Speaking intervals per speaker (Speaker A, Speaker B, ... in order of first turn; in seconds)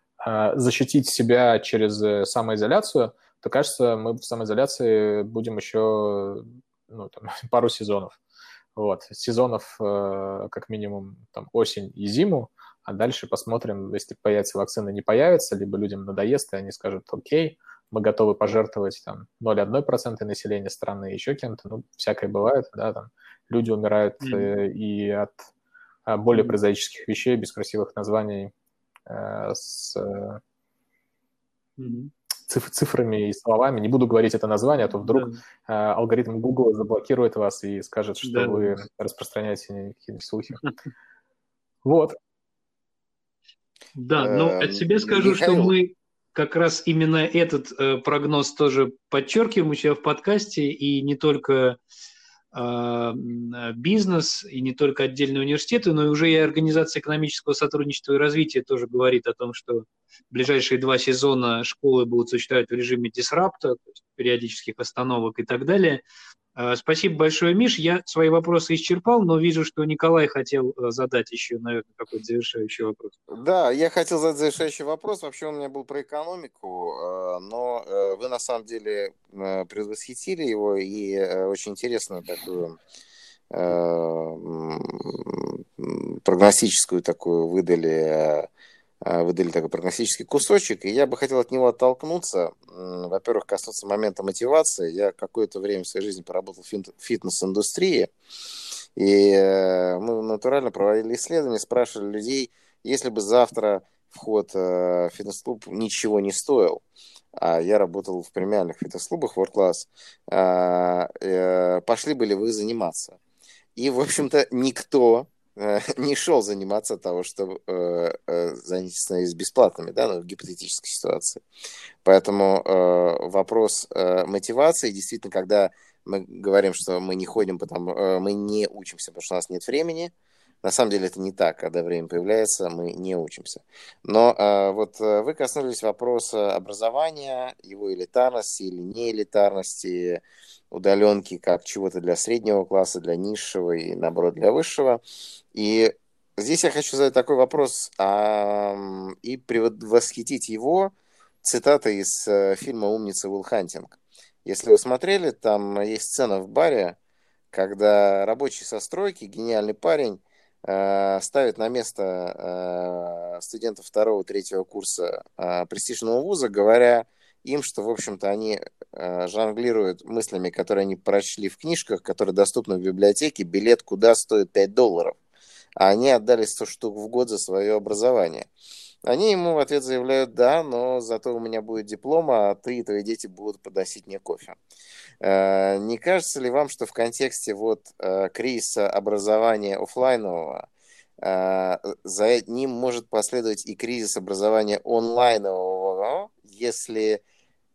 Speaker A: 0.2-8.2, 8.8-25.5, 26.1-28.5, 29.1-30.4, 32.5-40.6, 41.8-42.1
Speaker B: 24.2-24.5, 31.8-32.1, 35.0-35.4, 38.2-38.8, 44.0-51.8, 52.5-66.0, 66.6-73.1
Speaker C: 44.2-45.7, 73.3-82.8, 83.5-88.5, 89.0-98.1, 99.0-106.8, 107.4-113.2, 113.8-121.4, 122.0-145.0, 145.5-157.0, 157.5-175.2, 175.8-178.5, 179.0-184.6, 185.2-190.7, 191.2-197.2